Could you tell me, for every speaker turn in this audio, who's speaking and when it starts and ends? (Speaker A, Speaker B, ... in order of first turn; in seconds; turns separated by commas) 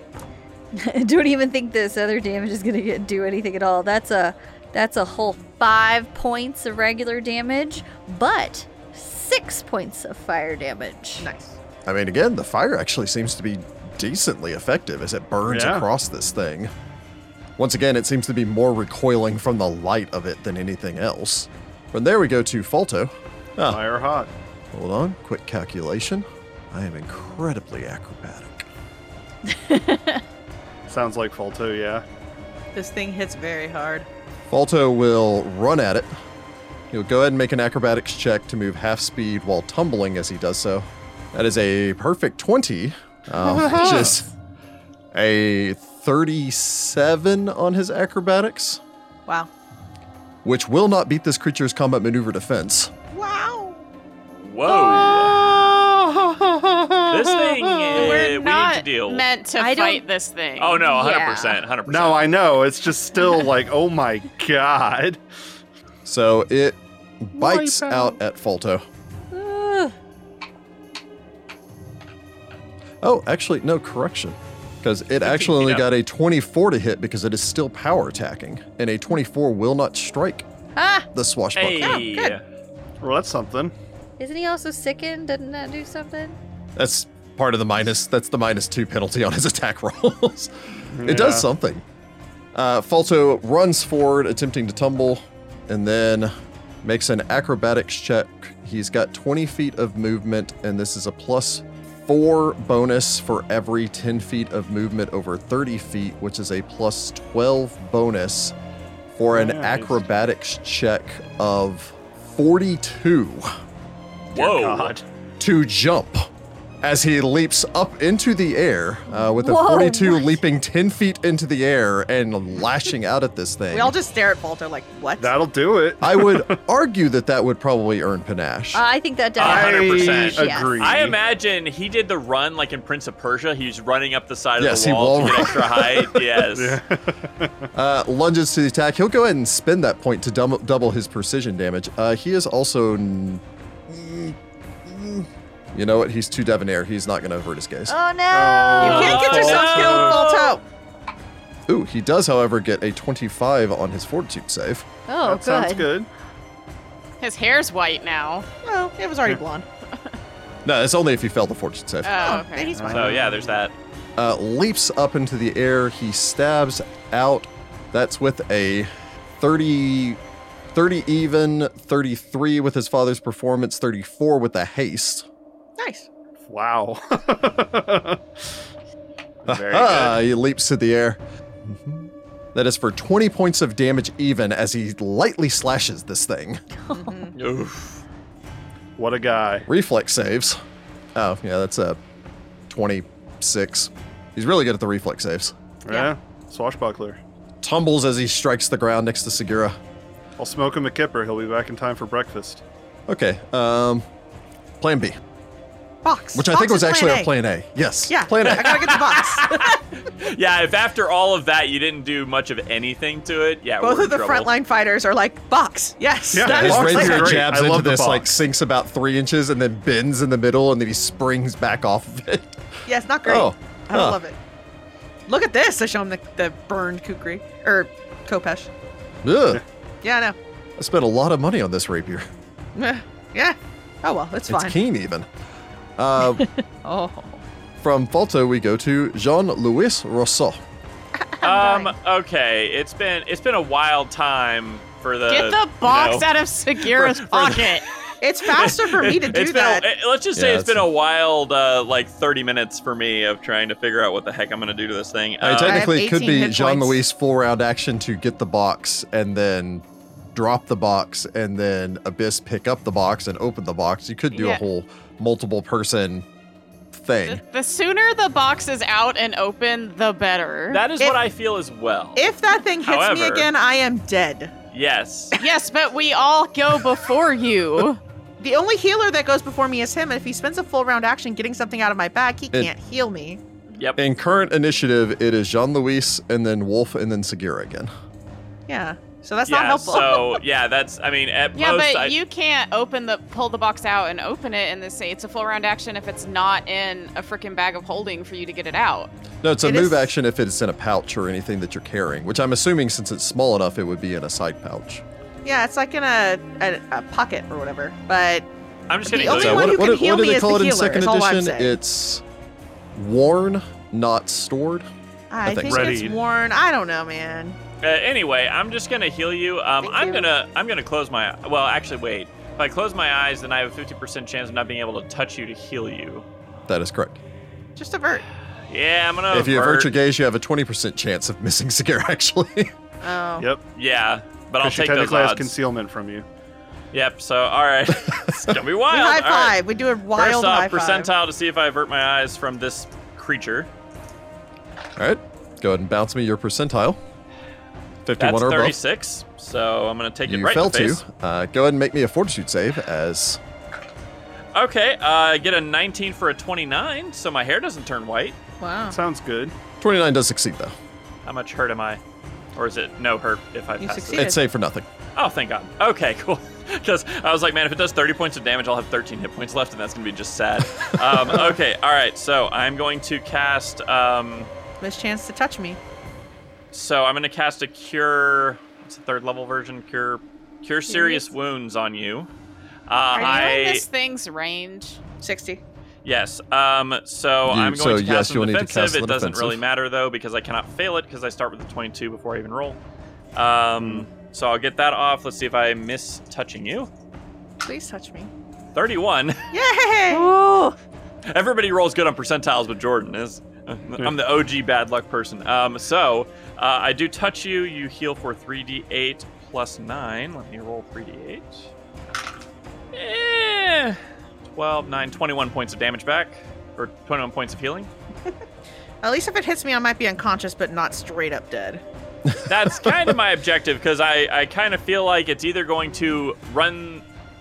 Speaker A: 0.7-11.3, Speaker B: 11.2-11.6, Speaker C: 11.9-16.7, Speaker D: 15.5-15.9, Speaker C: 17.6-23.8, Speaker D: 23.6-24.3, Speaker C: 24.7-28.7, Speaker A: 29.5-30.2, Speaker D: 30.9-32.0, Speaker B: 32.8-34.1, Speaker C: 34.5-36.1, Speaker C: 36.9-44.3, Speaker D: 43.4-44.2, Speaker A: 43.7-44.1, Speaker C: 45.1-48.8, Speaker C: 50.4-52.9, Speaker B: 53.1-53.8, Speaker E: 54.4-55.6, Speaker A: 54.8-55.2, Speaker D: 55.0-58.0, Speaker E: 57.1-59.3, Speaker F: 57.9-60.9, Speaker A: 59.6-60.0, Speaker E: 60.6-62.3, Speaker A: 60.8-61.6, Speaker D: 61.9-65.2, Speaker C: 66.0-68.8, Speaker D: 67.4-67.9, Speaker A: 69.3-70.0, Speaker C: 73.0-80.5, Speaker E: 75.2-75.9, Speaker A: 80.8-81.1, Speaker C: 81.1-82.0, Speaker E: 81.6-82.4, Speaker B: 81.8-82.4, Speaker D: 83.0-83.7, Speaker A: 84.2-86.4, Speaker C: 86.8-90.5, Speaker D: 90.9-91.5, Speaker C: 91.0-91.8, Speaker C: 92.5-108.5, Speaker C: 109.2-113.5, Speaker D: 109.3-110.0, Speaker E: 114.3-115.0, Speaker D: 114.3-115.0, Speaker C: 115.4-116.3, Speaker C: 116.8-124.0, Speaker A: 119.1-120.4, Speaker B: 123.7-125.4, Speaker D: 125.2-126.6, Speaker C: 126.0-128.8, Speaker A: 128.7-130.8, Speaker E: 129.4-136.8, Speaker D: 129.4-131.2, Speaker C: 134.6-136.1, Speaker D: 136.5-137.7, Speaker C: 137.8-148.0, Speaker A: 147.9-149.5, Speaker D: 148.3-150.3, Speaker B: 148.8-150.6, Speaker E: 148.8-150.6, Speaker C: 151.7-154.9, Speaker A: 155.1-155.9, Speaker D: 155.2-156.1, Speaker F: 157.2-158.5, Speaker B: 158.6-159.7, Speaker C: 160.7-162.3, Speaker F: 162.0-162.9, Speaker B: 162.1-163.2, Speaker D: 162.7-163.5, Speaker E: 162.9-163.7, Speaker C: 164.2-170.2, Speaker C: 170.7-175.3, Speaker B: 175.8-176.1, Speaker D: 176.4-178.4, Speaker D: 179.4-180.2, Speaker C: 179.5-186.6, Speaker A: 186.9-187.3, Speaker B: 186.9-187.3, Speaker E: 187.4-188.0, Speaker D: 189.0-189.7, Speaker C: 189.7-190.6, Speaker C: 191.2-192.0, Speaker C: 192.7-195.5, Speaker D: 195.8-197.2, Speaker C: 197.6-199.8, Speaker D: 200.4-202.6, Speaker C: 203.1-204.1, Speaker C: 204.8-205.2, Speaker B: 206.0-207.3, Speaker C: 206.3-208.9, Speaker B: 208.1-209.8, Speaker E: 208.6-214.5, Speaker B: 213.8-217.4, Speaker D: 216.3-218.3, Speaker C: 216.4-222.7, Speaker B: 222.9-224.4, Speaker C: 223.3-224.2, Speaker B: 225.3-228.7, Speaker C: 229.2-229.6, Speaker B: 230.0-230.4, Speaker C: 230.8-232.3, Speaker B: 232.8-234.8, Speaker C: 234.5-235.3, Speaker C: 236.0-236.5, Speaker B: 236.8-237.4, Speaker C: 237.8-240.6, Speaker B: 241.2-241.9, Speaker E: 241.4-246.3, Speaker F: 245.3-247.9, Speaker E: 246.8-247.8, Speaker B: 248.2-249.8, Speaker E: 248.5-255.9, Speaker C: 250.4-250.8, Speaker C: 255.4-266.3, Speaker B: 255.7-257.0, Speaker F: 264.3-264.6, Speaker C: 266.9-267.4, Speaker F: 267.3-270.8, Speaker E: 270.7-273.5, Speaker B: 272.2-274.5, Speaker E: 274.7-275.4, Speaker F: 275.4-278.0, Speaker B: 278.4-283.4, Speaker C: 284.0-287.9, Speaker B: 288.7-290.4, Speaker E: 289.5-292.1, Speaker F: 291.6-299.1, Speaker C: 299.4-305.0, Speaker B: 299.6-300.1, Speaker B: 305.4-308.5, Speaker E: 308.9-309.8, Speaker B: 309.1-311.8, Speaker C: 309.2-312.2, Speaker C: 312.9-314.9, Speaker B: 315.3-317.6, Speaker C: 315.4-315.9, Speaker D: 315.6-316.2, Speaker E: 317.8-326.3, Speaker B: 319.8-320.3, Speaker C: 326.7-327.2, Speaker B: 327.8-328.2, Speaker E: 328.7-329.9, Speaker C: 329.3-332.7, Speaker B: 333.0-333.5, Speaker E: 333.8-335.5, Speaker D: 334.6-336.3, Speaker E: 336.9-339.6, Speaker B: 338.9-341.1, Speaker E: 340.1-343.7, Speaker C: 345.0-347.0, Speaker C: 348.1-348.8, Speaker E: 348.2-351.0, Speaker C: 350.3-353.4, Speaker E: 354.6-358.4, Speaker B: 358.6-359.0, Speaker D: 358.9-359.5, Speaker C: 359.8-360.8, Speaker E: 361.2-362.0, Speaker E: 362.6-364.3, Speaker B: 363.8-364.4, Speaker C: 364.1-364.9, Speaker E: 365.1-374.5, Speaker B: 374.8-375.8, Speaker E: 376.7-382.3, Speaker B: 380.9-381.2, Speaker E: 382.9-383.9, Speaker B: 383.1-383.6, Speaker F: 383.1-385.0, Speaker B: 385.2-385.6, Speaker E: 386.1-392.8, Speaker C: 387.4-389.6, Speaker E: 393.4-396.9, Speaker B: 397.6-398.3, Speaker E: 398.8-399.4, Speaker B: 399.5-400.3, Speaker A: 400.1-400.8, Speaker E: 401.3-411.7, Speaker E: 412.9-414.0, Speaker E: 414.5-417.9, Speaker B: 419.0-421.8, Speaker E: 422.5-427.0